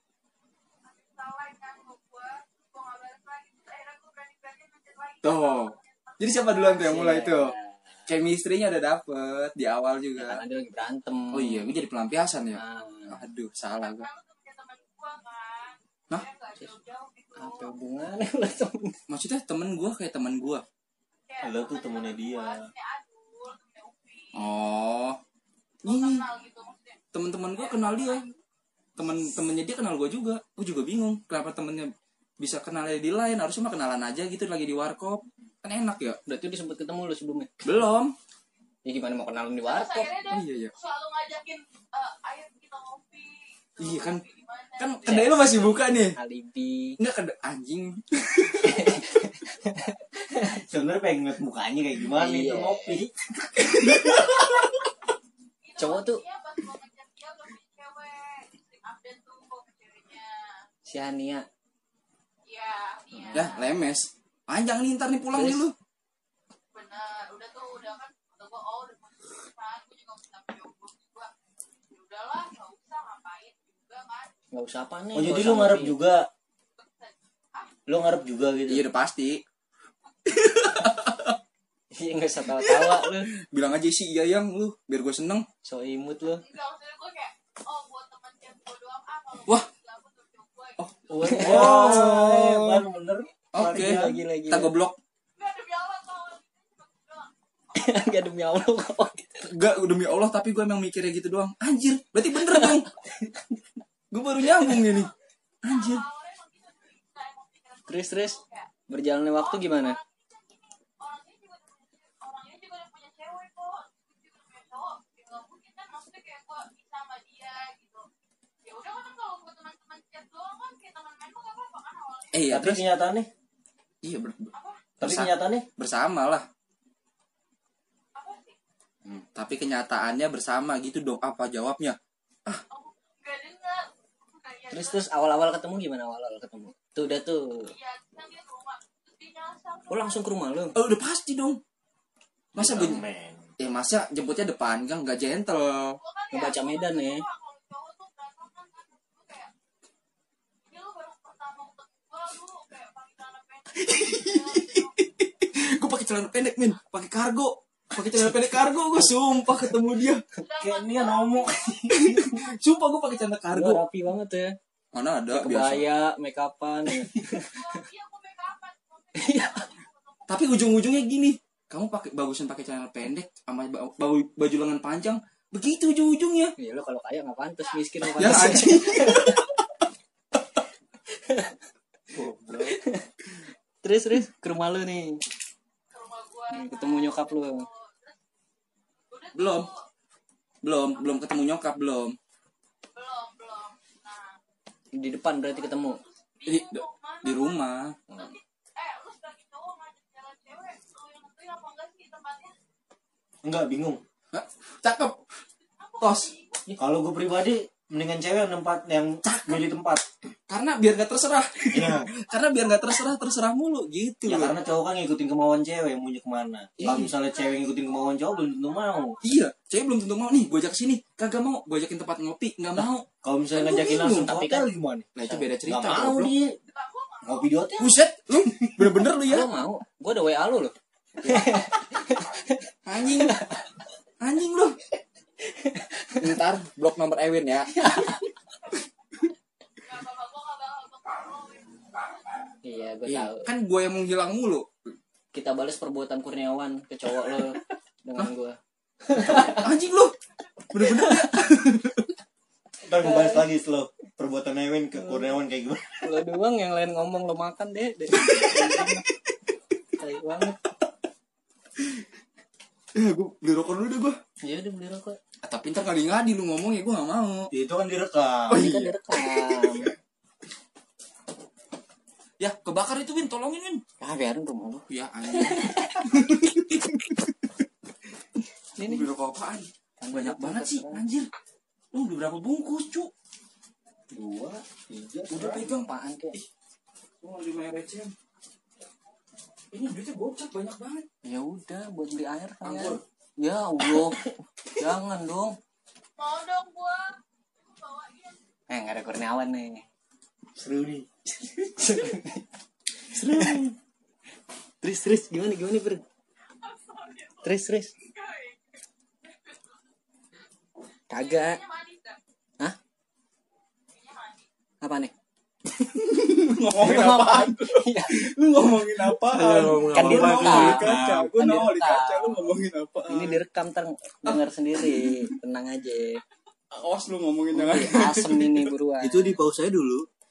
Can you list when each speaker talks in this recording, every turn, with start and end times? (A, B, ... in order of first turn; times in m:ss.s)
0:00.8-0:06.9 A
0:05.2-0:07.5 B
0:06.8-0:08.0 C
0:08.1-0:10.4 B
0:10.2-0:11.7 C
0:11.3-0:14.1 B
0:12.6-0:13.2 C
0:13.8-0:17.7 A
0:17.4-0:19.0 C
0:19.1-0:20.6 B
0:21.3-0:24.5 A
0:21.4-0:22.7 D
0:24.3-0:25.2 B
0:25.8-0:28.4 A
0:25.8-0:26.2 B
0:27.1-0:28.3 B
0:29.0-0:36.2 B
0:36.3-0:37.5 C
0:37.6-0:38.1 B
0:38.8-0:40.1 C
0:39.6-0:45.5 A
0:40.3-0:40.7 B
0:43.8-0:44.2 B
0:44.8-0:46.2 B
0:45.0-0:47.0 C
0:47.0-0:49.0 B
0:48.6-0:50.5 C
0:50.4-0:53.1 D
0:52.1-0:53.1 C
0:53.6-0:54.8 B
0:55.6-1:00.6 A
0:55.8-0:56.2 C
1:00.9-1:01.4 C
1:02.4-1:03.7 A
1:03.2-1:03.4 C
1:03.3-1:05.7 B
1:05.3-1:05.7 C
1:06.7-1:11.3 A
1:11.9-1:14.3 A
1:14.5-1:16.0 C
1:15.1-1:16.3 D
1:16.8-1:17.7 A
1:17.9-1:18.8 D
1:18.7-1:19.4 B
1:20.2-1:21.4 B
1:21.9-1:23.3 C
1:22.6-1:25.4 B
1:25.6-1:26.4 C
1:26.4-1:30.8 A
1:30.8-1:32.8 B
1:31.1-1:34.1 D
1:31.2-1:32.2 C
1:33.5-1:35.0 B
1:33.8-1:34.7 C
1:35.4-1:38.1 A
1:37.7-1:39.5 C
1:39.4-1:42.9 B
1:42.4-1:43.4 C
1:44.1-1:45.1 B
1:44.7-1:45.1 A
1:45.6-1:46.0 B
1:45.6-1:48.7 A
1:47.9-1:48.4 C
1:48.9-1:50.0 C
1:49.4-1:58.0 A
1:58.6-2:02.4 A
2:02.3-2:02.8 B
2:02.5-2:03.3 D
2:04.0-2:06.5 B
2:04.5-2:04.8 A
2:05.0-2:05.7 D
2:08.1-2:08.6 A
2:09.1-2:12.6 B
2:12.7-2:15.0 A
2:14.7-2:17.7 C
2:17.7-2:20.3 A
2:19.9-2:20.8 C
2:20.7-2:21.6 B
2:22.5-2:23.0 B
2:22.6-2:23.5 D
2:23.6-2:26.0 B
2:26.0-2:29.5 A
2:26.3-2:27.2 C
2:30.7-2:35.0 A
2:33.7-2:40.2 B
2:40.4-2:41.9 A
2:40.6-2:42.4 D
2:41.9-2:43.8 B
2:42.8-2:43.3 A
2:43.5-2:44.6 C
2:44.9-2:45.9 B
2:45.3-2:47.8 C
2:47.4-2:50.6 A
2:49.1-2:49.7 C
2:50.3-2:56.5 B
2:56.6-2:59.4 C
2:58.2-2:59.5 B
3:01.2-3:01.5 C
3:02.1-3:02.8 D
3:02.7-3:03.2 C
3:03.8-3:05.2 C
3:05.9-3:08.2 A
3:06.5-3:07.6 C
3:09.1-3:09.8 A
3:09.3-3:09.7 B
3:10.6-3:12.2 B
3:11.0-3:11.4 A
3:12.9-3:14.4 A
3:14.9-3:16.0 C
3:15.4-3:22.5 A
3:16.4-3:18.0 B
3:23.4-3:24.0 D
3:24.3-3:25.2 B
3:25.8-3:26.6 A
3:26.0-3:26.8 B
3:26.8-3:30.0 D
3:29.2-3:29.7 B
3:30.5-3:34.6 B
3:31.7-3:32.1 D
3:34.2-3:39.2 D
3:36.8-3:37.1 B
3:36.9-3:39.4 A
3:39.2-3:44.3 B
3:43.2-3:45.1 D
3:44.1-3:44.7 C
3:45.1-3:46.3 B
3:45.6-3:46.6 D
3:46.7-3:47.7 A
3:47.2-3:48.9 D
3:47.8-3:49.5 B
3:49.3-3:52.5 C
3:51.2-3:51.6 B
3:52.8-3:53.6 B
3:54.2-3:54.8 B
3:55.5-3:56.1 C
3:56.2-3:57.7 B
3:57.7-3:58.3 C
3:59.8-4:02.3 A
4:02.6-4:03.5 C
4:03.0-4:04.7 B
4:05.3-4:09.7 C
4:09.1-4:10.1 B
4:10.7-4:12.0 B
4:10.8-4:11.3 C
4:12.8-4:16.2 D
4:13.0-4:13.5 C
4:15.0-4:15.3 C
4:16.0-4:19.0 C
4:18.1-4:19.0 B
4:20.0-4:20.6 C
4:22.9-4:24.2 B
4:24.4-4:25.2 C
4:25.4-4:27.5 B
4:27.5-4:28.8 D
4:28.5-4:29.9 B
4:28.5-4:29.9 C
4:32.4-4:33.8 B
4:34.0-4:35.8 C
4:34.9-4:37.3 B
4:38.8-4:39.1 C
4:38.8-4:41.3 B
4:40.0-4:41.0 C
4:41.9-4:43.1 B
4:44.1-4:45.7 D
4:45.3-4:46.5 B
4:45.5-4:46.4 C
4:47.2-4:48.1 B
4:49.7-4:51.0 B
4:51.2-4:55.5 C
4:52.6-4:53.0 B
4:56.2-4:58.4 A
4:58.7-4:59.9 C
5:00.5-5:01.1 D
5:01.7-5:02.4 C
5:03.1-5:03.7 C
5:03.2-5:03.6 B
5:04.8-5:06.0 C
5:06.6-5:07.5 A
5:07.4-5:07.9 C
5:08.0-5:08.6 A
5:11.1-5:11.6 C
5:11.1-5:12.2 A
5:13.9-5:14.5 A
5:14.8-5:15.1 C
5:15.8-5:23.4 B
5:16.7-5:18.3 C
5:19.2-5:21.3 D
5:19.9-5:22.6 C
5:23.1-5:26.2 C
5:24.2-5:25.4 B
5:26.7-5:28.7 B
5:27.5-5:29.4 C
5:29.0-5:30.1 D